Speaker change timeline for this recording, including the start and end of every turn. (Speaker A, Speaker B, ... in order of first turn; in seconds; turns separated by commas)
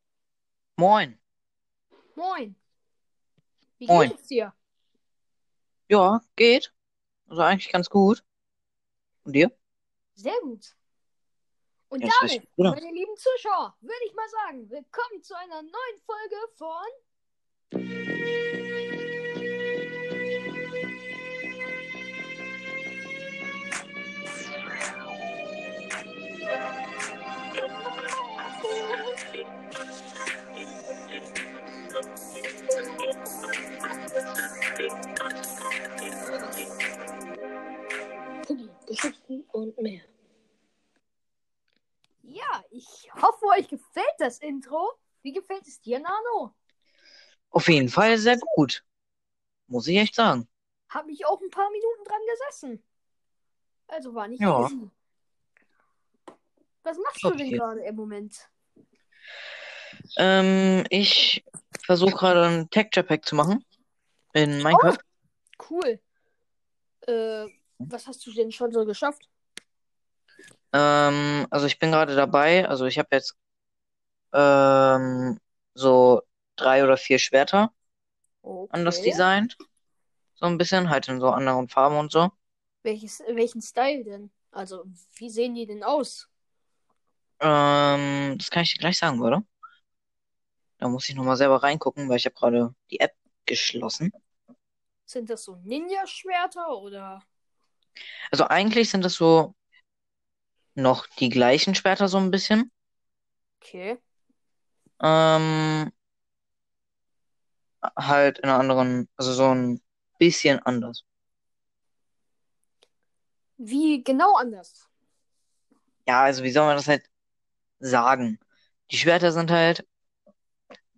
Speaker A: 0.8-1.2, Speaker B: 2.1-2.6, Speaker B: 3.8-4.5, Speaker A: 3.9-4.1, Speaker A: 5.9-6.7, Speaker A: 7.3-8.2, Speaker A: 9.2-9.5, Speaker B: 10.2-10.7, Speaker B: 11.9-16.9, Speaker A: 12.0-12.8, Speaker B: 38.5-40.1, Speaker B: 42.2-46.5, Speaker A: 47.5-48.8, Speaker A: 49.7-50.5, Speaker B: 50.9-52.8, Speaker B: 53.9-54.9, Speaker A: 54.4-54.7, Speaker B: 56.8-58.5, Speaker A: 57.2-57.6, Speaker A: 60.2-63.6, Speaker A: 64.3-65.0, Speaker B: 64.7-65.0, Speaker B: 65.6-66.0, Speaker B: 67.0-69.3, Speaker A: 70.7-73.3, Speaker A: 74.3-77.7, Speaker B: 78.4-79.2, Speaker A: 78.7-79.5, Speaker A: 80.4-82.3, Speaker B: 82.8-86.3, Speaker A: 87.4-89.4, Speaker A: 90.8-94.1, Speaker B: 95.1-97.2, Speaker A: 98.3-99.5, Speaker A: 100.8-102.7, Speaker B: 103.6-104.0, Speaker A: 105.0-105.9, Speaker A: 107.8-111.0, Speaker B: 113.6-114.9, Speaker A: 116.1-117.0, Speaker A: 117.8-119.8